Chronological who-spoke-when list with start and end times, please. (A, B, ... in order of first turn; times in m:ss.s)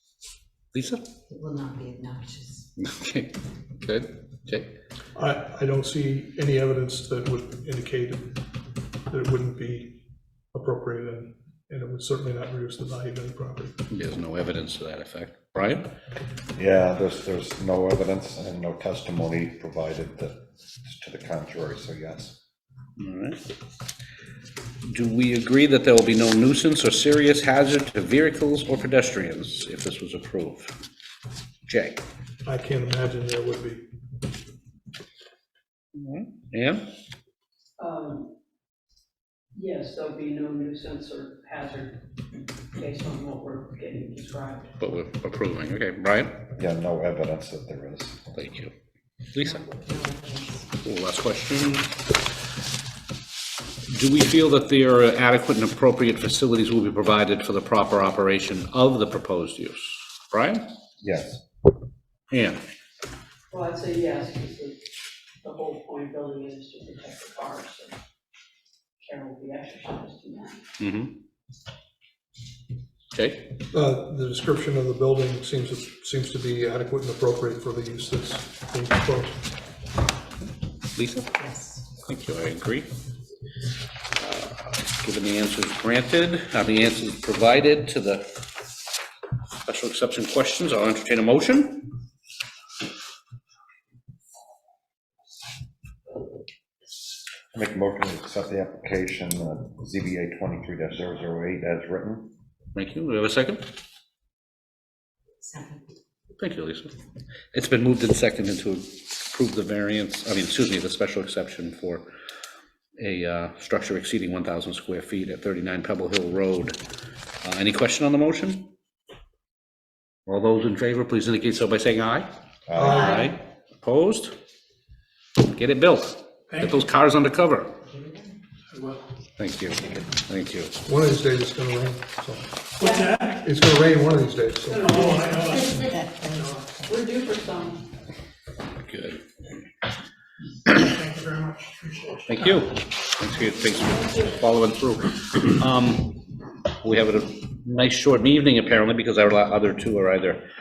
0:00.7-0:01.0 A
0:01.3-0:02.6 B
0:02.8-0:04.7 A
0:05.2-0:08.4 C
0:09.1-0:13.8 C
0:13.9-0:15.9 A
0:16.6-0:22.4 D
0:23.0-0:23.4 A
0:24.8-0:30.7 A
0:31.7-0:32.0 A
0:32.4-0:33.8 C
0:36.0-0:36.9 A
0:37.8-0:38.3 E
0:39.5-0:42.1 E
0:42.7-0:44.7 E
0:44.8-0:46.5 A
0:46.5-0:48.3 D
0:48.3-0:48.7 A
0:49.3-0:49.7 A
0:49.4-0:50.7 B
0:50.8-0:51.9 A
0:53.9-1:00.6 A
1:01.0-1:01.4 D
1:02.3-1:02.6 A
1:03.5-1:08.0 E
1:09.0-1:10.7 E
1:10.8-1:11.1 A
1:13.1-1:13.6 A
1:13.7-1:19.5 C
1:21.0-1:21.3 A
1:21.4-1:21.8 B
1:22.0-1:22.9 A
1:24.2-1:28.3 A
1:29.6-1:31.9 A
1:37.5-1:42.3 D
1:42.7-1:43.7 A
1:45.4-1:45.9 B
1:46.4-1:47.0 A
1:47.5-1:52.1 A
1:53.0-1:56.8 A
1:57.4-1:58.7 A
2:00.3-2:02.3 A
2:02.7-2:03.1 D
2:02.8-2:03.3 C
2:02.8-2:04.4 A
2:03.0-2:03.3 B
2:05.5-2:07.8 A
2:06.5-2:06.9 F
2:07.9-2:08.3 B
2:08.7-2:09.1 F
2:09.4-2:10.8 A
2:10.8-2:12.7 C
2:12.8-2:13.5 F
2:12.8-2:13.2 E
2:13.4-2:14.9 C
2:14.7-2:15.7 E
2:14.8-2:16.8 F
2:16.8-2:17.9 E
2:18.8-2:19.2 A
2:20.7-2:22.7 F
2:22.3-2:26.2 A
2:26.8-2:30.4 A